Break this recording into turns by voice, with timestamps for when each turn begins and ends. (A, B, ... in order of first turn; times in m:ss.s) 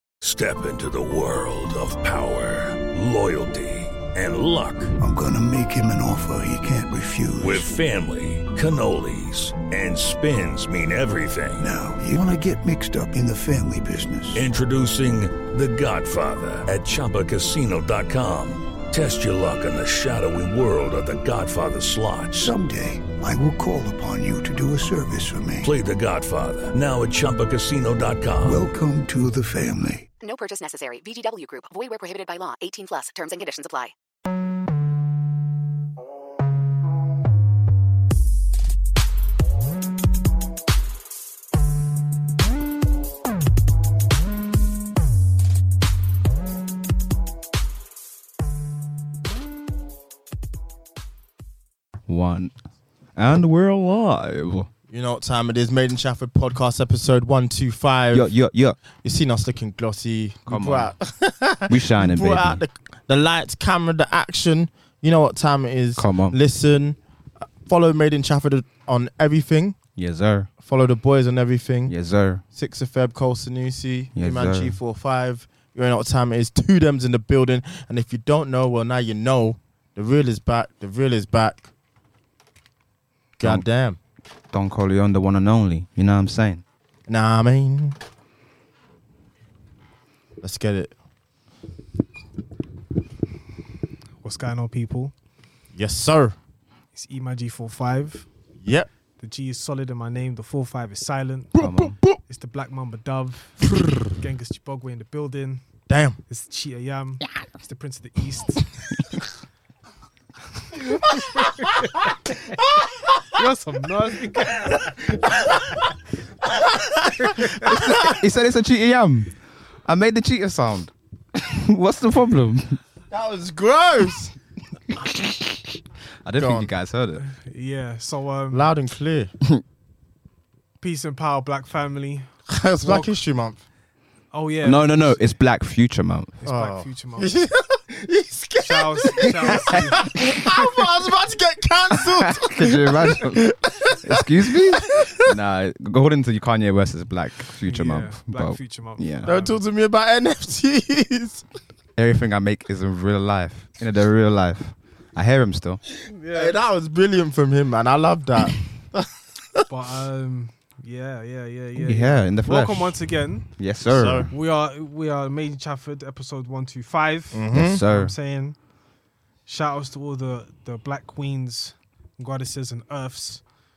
0:00.2-0:05.0 A
0:05.0-0:07.7 B
0:07.4-0:11.7 A
0:11.6-0:14.5 B
0:14.3-0:22.5 A
0:22.3-0:25.7 B
0:25.6-0:28.6 A
0:28.5-0:30.1 B
0:30.2-0:33.9 C
0:52.1-0:52.6 D
0:53.2-0:54.7 D
0:54.9-0:58.3 E
0:58.1-0:58.8 D
0:59.0-1:07.0 E
1:00.5-1:00.9 D
1:01.7-1:02.6 D
1:06.0-1:06.4 D
1:07.7-1:09.8 E
1:10.0-1:10.5 D
1:10.6-1:12.0 E
1:11.9-1:12.4 D
1:12.5-1:21.7 E
1:14.2-1:14.8 D
1:23.4-1:24.0 E
1:23.4-1:23.7 D
1:24.5-1:26.6 D
1:27.1-1:28.0 E
1:30.4-1:30.9 E
1:34.2-1:35.1 F
1:35.7-1:36.4 E
1:36.9-1:38.3 F
1:38.6-1:38.9 E
1:39.2-1:45.6 F
1:41.6-1:42.0 D
1:45.9-1:46.2 E
1:46.3-1:49.0 F
1:51.5-1:52.0 F
1:52.7-1:53.4 E
1:53.4-1:54.7 F
1:54.5-1:55.9 E
1:56.4-1:58.2 E
1:57.6-2:02.8 D
2:03.1-2:04.3 E
2:04.9-2:07.2 D
2:06.4-2:06.7 E
2:07.2-2:08.7 F
2:08.5-2:09.3 E
2:10.8-2:13.1 F
2:12.5-2:13.6 E
2:14.3-2:15.2 F
2:14.6-2:16.4 D
2:16.4-2:17.3 F
2:16.5-2:25.3 E
2:18.6-2:20.1 F
2:19.7-2:20.6 D
2:22.0-2:29.3 D
2:27.6-2:29.6 F
2:29.3-2:31.4 E
2:32.0-2:35.8 D
2:36.1-2:36.6 F
2:36.3-2:39.7 E
2:39.7-2:43.5 F
2:41.8-2:43.0 D
2:43.5-2:44.3 D
2:43.9-2:44.3 E
2:44.3-2:48.6 F
2:47.3-2:47.8 E
2:47.5-2:48.2 D
2:49.5-2:53.4 F